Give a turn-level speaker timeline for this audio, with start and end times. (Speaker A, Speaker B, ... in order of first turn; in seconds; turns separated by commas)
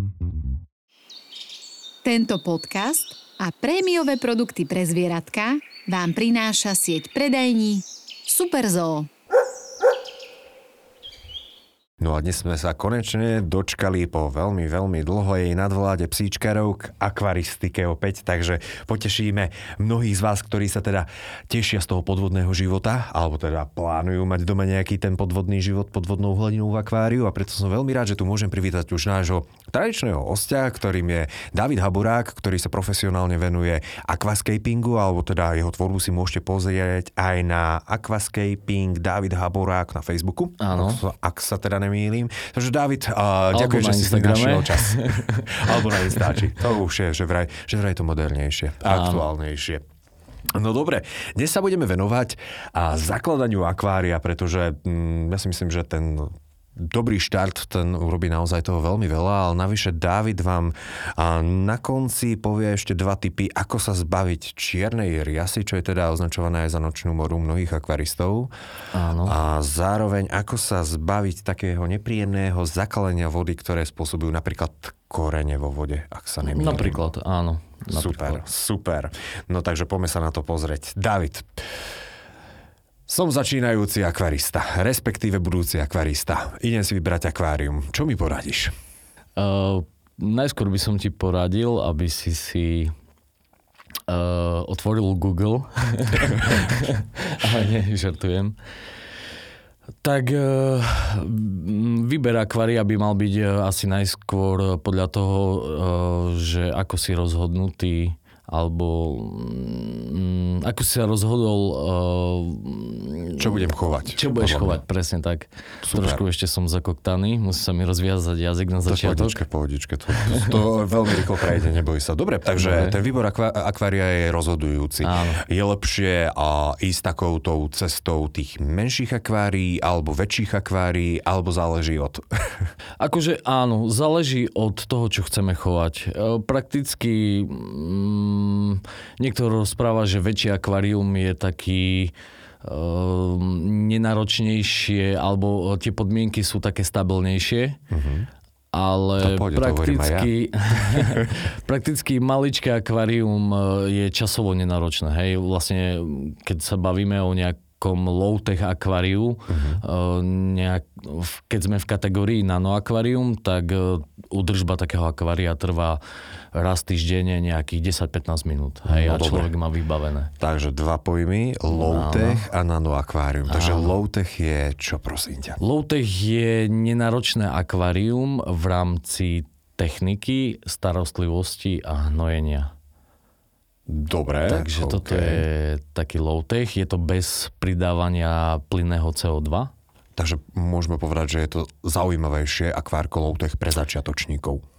Speaker A: 2.0-9.1, Speaker B: 12.0-49.8, Speaker C: 40.6-41.0, Speaker C: 43.5-46.2, Speaker C: 48.8-49.2, Speaker B: 50.5-68.5, Speaker C: 68.9-69.3, Speaker B: 69.2-77.0, Speaker C: 76.4-78.4, Speaker B: 77.9-81.7, Speaker B: 83.1-88.7, Speaker C: 89.3-92.9, Speaker C: 94.1-98.6, Speaker C: 100.0-119.4, Speaker B: 113.4-114.8, Speaker B: 115.8-116.2, Speaker B: 118.9-132.7, Speaker C: 122.6-123.0, Speaker C: 125.0-125.4, Speaker C: 133.0-147.8, Speaker B: 147.9-148.3, Speaker C: 148.7-166.0, Speaker B: 149.2-151.3, Speaker B: 159.5-159.8, Speaker C: 166.5-170.3, Speaker B: 168.9-169.5, Speaker B: 170.4-175.6, Speaker C: 171.7-172.4, Speaker C: 173.5-173.9, Speaker C: 175.6-182.7, Speaker B: 183.9-185.4, Speaker C: 184.4-189.7, Speaker B: 190.2-194.6